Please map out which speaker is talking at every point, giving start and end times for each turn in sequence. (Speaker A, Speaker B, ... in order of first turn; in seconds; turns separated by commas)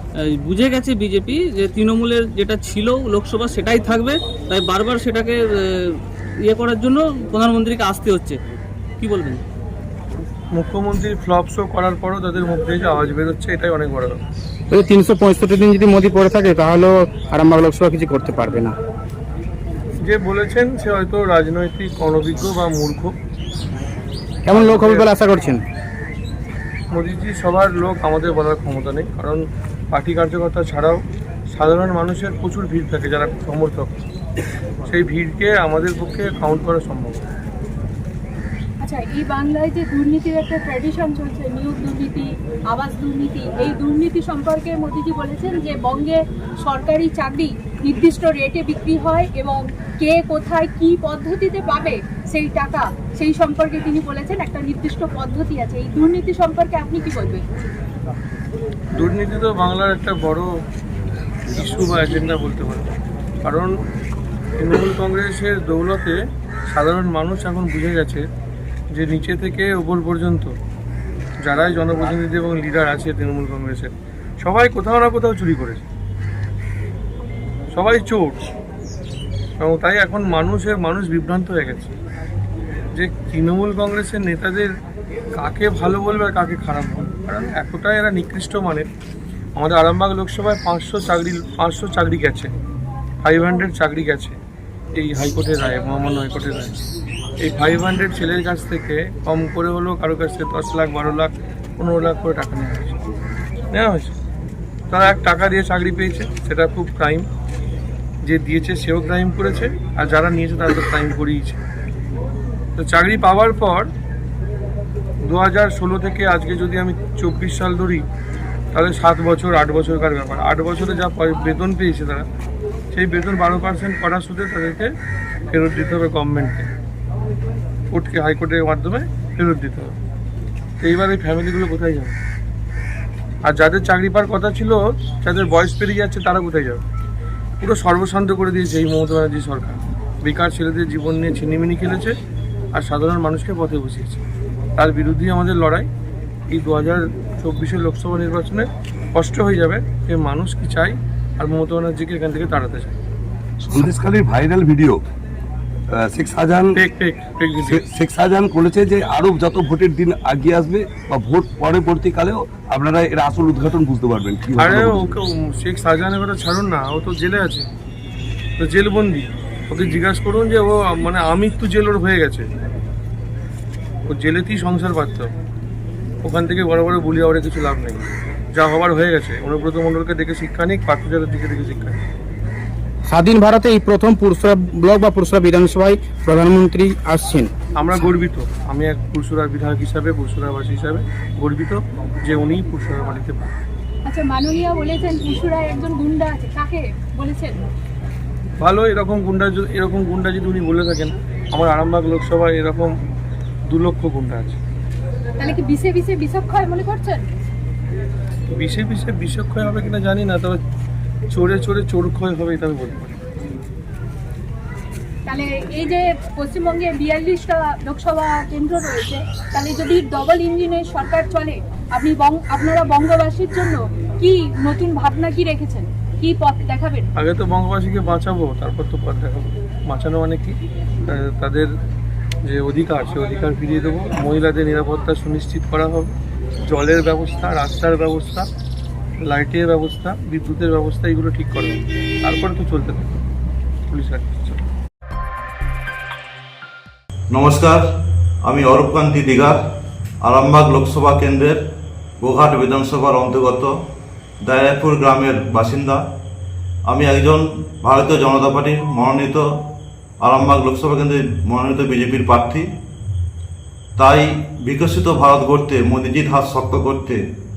Speaker A: 0.4-5.4, Speaker A: 6.4-8.4, Speaker A: 9.0-9.4, Speaker B: 10.5-14.2, Speaker C: 14.7-18.8, Speaker B: 20.0-23.1, Speaker C: 24.4-25.6, Speaker B: 24.5-25.1, Speaker B: 26.9-31.0, Speaker B: 31.5-33.9, Speaker B: 34.8-37.2, Speaker D: 38.8-57.4, Speaker B: 59.0-60.5, Speaker B: 61.5-62.9, Speaker B: 63.4-63.7, Speaker B: 64.6-66.2, Speaker B: 66.7-68.2, Speaker B: 68.9-70.5, Speaker B: 71.4-73.9, Speaker B: 74.4-75.8, Speaker B: 77.7-78.4, Speaker B: 79.6-81.9, Speaker B: 82.9-84.7, Speaker B: 85.4-88.8, Speaker B: 89.6-92.5, Speaker B: 93.2-94.4, Speaker B: 94.9-96.8, Speaker B: 97.4-103.0, Speaker B: 103.7-104.1, Speaker B: 104.9-107.2, Speaker B: 108.2-111.6, Speaker B: 112.8-113.9, Speaker B: 115.3-118.0, Speaker B: 118.7-122.2, Speaker B: 122.9-124.9, Speaker B: 125.5-126.7, Speaker B: 127.9-129.9, Speaker B: 130.8-132.2, Speaker B: 133.4-136.8, Speaker B: 137.6-142.1, Speaker B: 142.8-144.2, Speaker B: 144.8-145.9, Speaker B: 146.5-153.0, Speaker E: 153.6-155.0, Speaker E: 155.9-156.8, Speaker B: 156.8-157.8, Speaker E: 157.6-165.1, Speaker B: 164.6-167.6, Speaker B: 168.6-172.4, Speaker B: 174.1-175.3, Speaker B: 176.2-178.0, Speaker B: 178.5-182.0, Speaker C: 183.1-187.5, Speaker B: 187.8-193.5, Speaker D: 194.1-197.6, Speaker B: 198.6-202.9, Speaker B: 203.7-204.6, Speaker D: 205.4-207.2, Speaker B: 208.6-210.6, Speaker B: 211.3-213.2, Speaker D: 215.3-227.1, Speaker B: 227.2-230.5, Speaker B: 231.1-231.7, Speaker B: 232.4-236.1, Speaker B: 236.7-238.5, Speaker B: 239.3-243.2, Speaker B: 243.9-244.6, Speaker F: 247.3-247.8, Speaker F: 248.4-249.6, Speaker F: 250.2-251.6, Speaker F: 252.2-253.7, Speaker F: 254.4-256.0, Speaker F: 256.9-259.4, Speaker F: 260.2-262.6, Speaker F: 264.0-267.2